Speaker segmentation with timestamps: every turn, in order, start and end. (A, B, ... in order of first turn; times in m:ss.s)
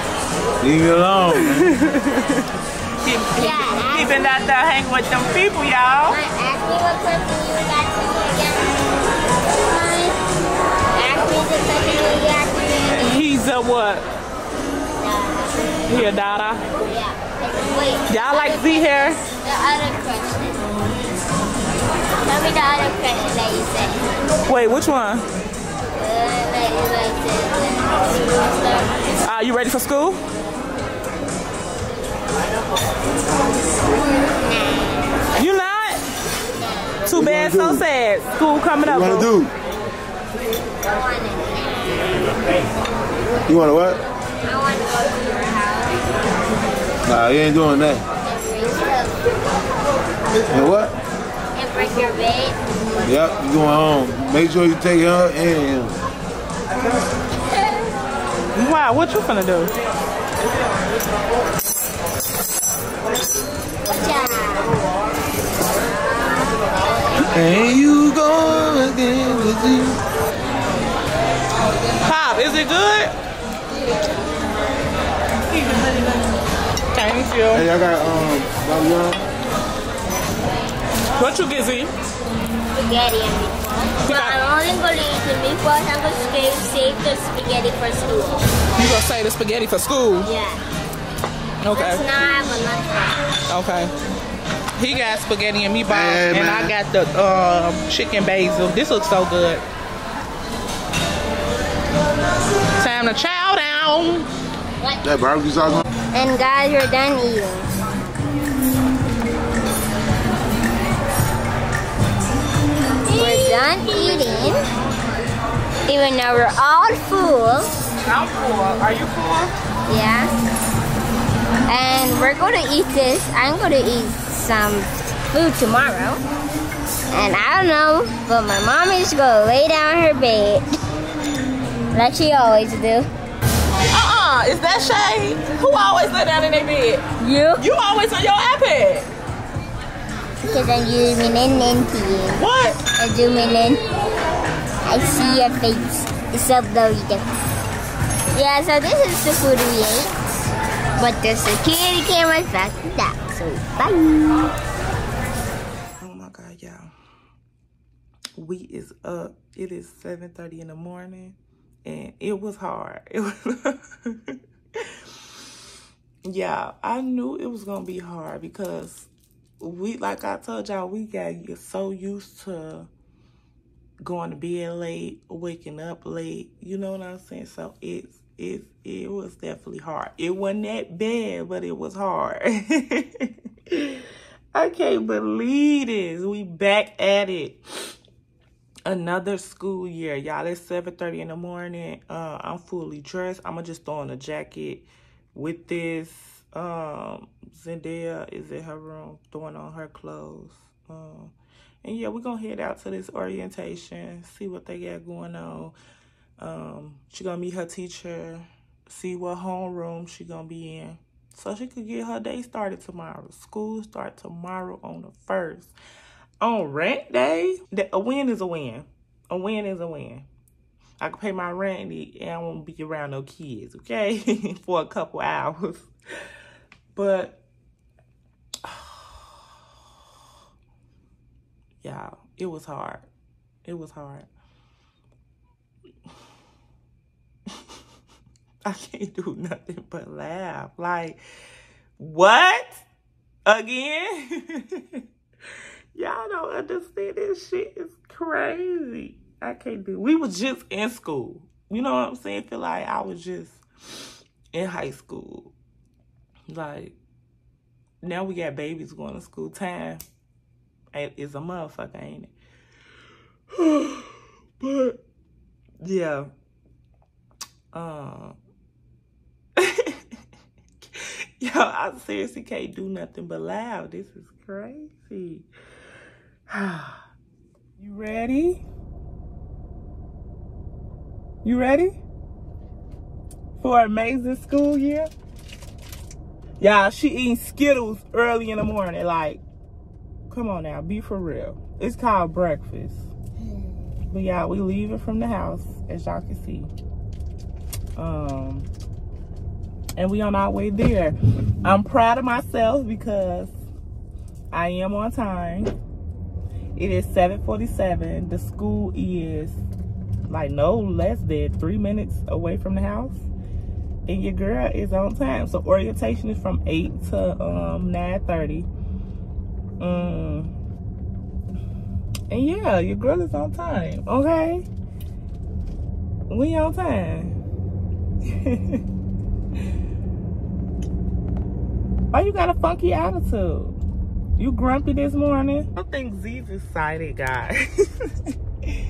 0:00.6-0:01.7 A
0:01.3-0:06.2 B
0:03.4-0:04.3 C
0:06.1-0:08.9 C
0:09.5-0:10.2 C
0:10.9-0:13.3 C
0:12.9-0:14.1 B
0:15.0-0:15.7 C
0:15.9-0:16.6 B
0:16.8-0:20.7 C
0:18.1-0:19.2 B
0:22.2-0:24.2 C
0:24.5-0:25.2 B
0:26.0-0:29.0 C
0:29.2-0:30.2 B
0:34.4-0:35.3 C
0:35.3-0:36.0 B
0:36.6-0:37.1 C
0:37.1-0:39.3 B
0:37.1-0:37.8 A
0:38.8-0:39.5 A
0:40.9-0:42.3 C
0:43.5-0:44.0 A
0:44.4-0:46.1 C
0:47.0-0:48.0 A
0:48.2-0:49.3 C
0:50.5-0:51.0 A
0:51.6-0:52.6 C
0:53.0-0:56.0 A
0:57.5-0:57.9 C
0:58.6-0:59.7 B
1:03.9-1:04.7 C
1:05.8-1:07.3 C
1:07.3-1:10.0 A
1:12.0-1:13.1 B
1:15.5-1:16.3 B
1:16.9-1:17.7 B
1:17.5-1:19.2 A
1:21.2-1:21.9 B
1:22.7-1:28.5 C
1:24.0-1:24.4 B
1:28.8-1:30.3 B
1:30.2-1:30.6 C
1:31.6-1:32.0 B
1:31.7-1:33.2 C
1:33.5-1:33.9 B
1:34.8-1:39.6 B
1:35.9-1:36.7 A
1:42.8-1:44.3 B
1:45.0-1:45.9 A
1:46.1-1:47.7 C
1:53.1-1:54.6 C
1:55.9-1:57.7 C
1:58.0-1:59.5 B
1:59.9-2:00.4 C
2:01.7-2:06.2 C
2:07.1-2:10.7 C
2:11.9-2:13.1 C
2:13.9-2:17.0 B
2:17.2-2:17.7 C
2:17.6-2:19.1 B
2:20.4-2:22.4 C
2:22.4-2:22.8 B
2:23.0-2:23.8 C
2:24.8-2:27.3 C
2:28.3-2:30.2 C
2:31.0-2:34.5 C
2:36.0-2:36.9 B
2:38.4-2:45.0 B
2:46.2-2:49.1 B
2:49.6-2:52.9 B
2:54.0-3:07.6 B
3:08.8-3:25.8 B
3:26.4-3:35.7 B
3:36.4-3:40.3 B
3:41.0-3:45.9 B
3:47.0-3:47.4 B
3:48.6-3:49.3 B
3:51.8-3:53.1 B
3:53.6-3:54.3 B
3:58.6-4:01.2 B
4:02.0-4:02.8 B
4:03.5-4:05.0 B
4:05.9-4:13.6 B
4:14.5-4:15.5 B
4:16.5-4:17.0 B
4:18.0-4:20.0 B
4:20.9-4:22.3 B
4:23.5-4:25.0 B
4:25.8-4:26.3 B
4:27.7-4:28.4 B
4:29.6-4:30.0 B
4:31.0-4:35.5 B
4:36.5-4:37.0 B
4:37.8-4:38.6 B
4:41.4-4:42.0 B
4:43.6-4:45.1 B
4:46.6-4:49.4 B
4:50.3-4:53.1 B
4:54.0-4:56.7 B
4:58.0-4:58.7 B
5:00.0-5:03.5 B
5:04.5-5:05.8 B
5:06.8-5:09.6 B
5:10.3-5:13.2 B
5:14.1-5:18.7 B
5:19.8-5:20.5 B
5:22.3-5:24.7 B
5:26.3-5:27.4 B
5:28.2-5:28.8 B
5:32.1-5:33.8 B
5:34.4-5:38.3 B